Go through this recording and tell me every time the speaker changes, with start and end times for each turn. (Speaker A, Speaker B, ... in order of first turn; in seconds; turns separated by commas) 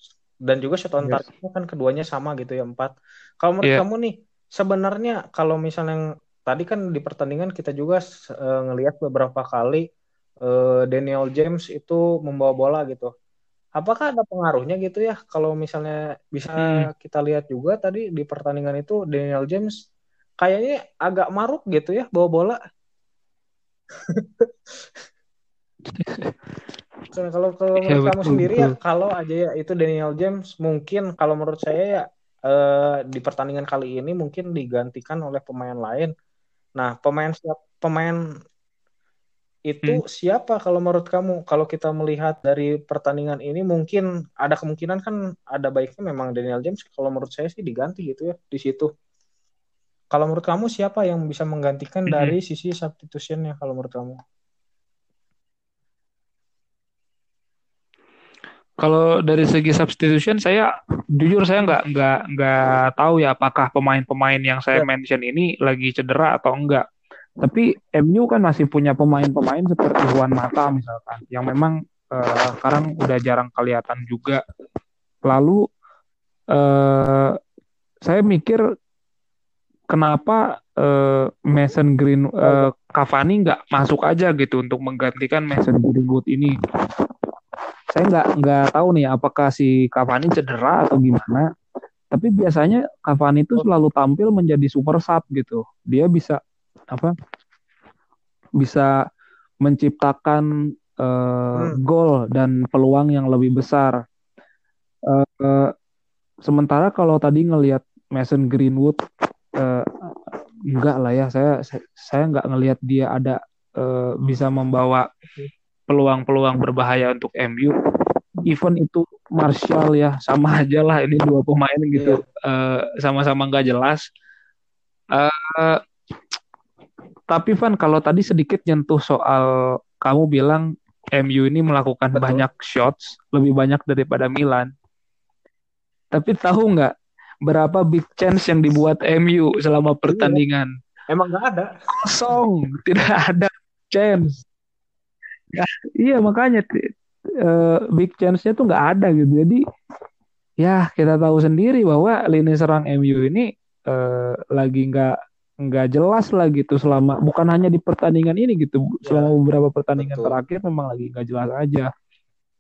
Speaker A: 0.5-9.8, Speaker B: 1.0-1.2, Speaker A: 10.5-13.1, Speaker A: 13.8-19.7, Speaker B: 16.6-16.9, Speaker A: 20.4-22.6, Speaker A: 24.1-24.7, Speaker B: 25.9-26.3, Speaker A: 27.1-36.1, Speaker B: 27.8-28.8, Speaker A: 36.8-38.2, Speaker A: 39.7-48.9, Speaker A: 50.1-54.2, Speaker B: 52.1-52.4, Speaker B: 58.8-66.8, Speaker B: 67.4-74.4, Speaker B: 75.2-75.6, Speaker B: 76.5-77.3, Speaker B: 78.0-78.6, Speaker B: 79.9-86.5, Speaker A: 82.4-82.7, Speaker B: 87.9-91.5, Speaker B: 92.1-96.4, Speaker B: 98.6-98.9, Speaker B: 99.6-100.5, Speaker B: 101.0-104.0, Speaker B: 105.1-105.7, Speaker B: 106.5-109.0, Speaker B: 109.6-115.1, Speaker B: 115.9-117.7, Speaker B: 118.5-124.0, Speaker A: 122.0-122.2, Speaker B: 125.1-125.8, Speaker B: 127.3-134.7, Speaker A: 132.1-132.4, Speaker B: 136.1-136.9, Speaker B: 137.5-140.7, Speaker A: 140.1-140.4, Speaker A: 141.1-141.7, Speaker B: 141.9-144.4, Speaker B: 145.5-146.9, Speaker B: 147.4-149.6, Speaker B: 150.6-161.9, Speaker A: 159.1-159.3, Speaker A: 160.0-160.4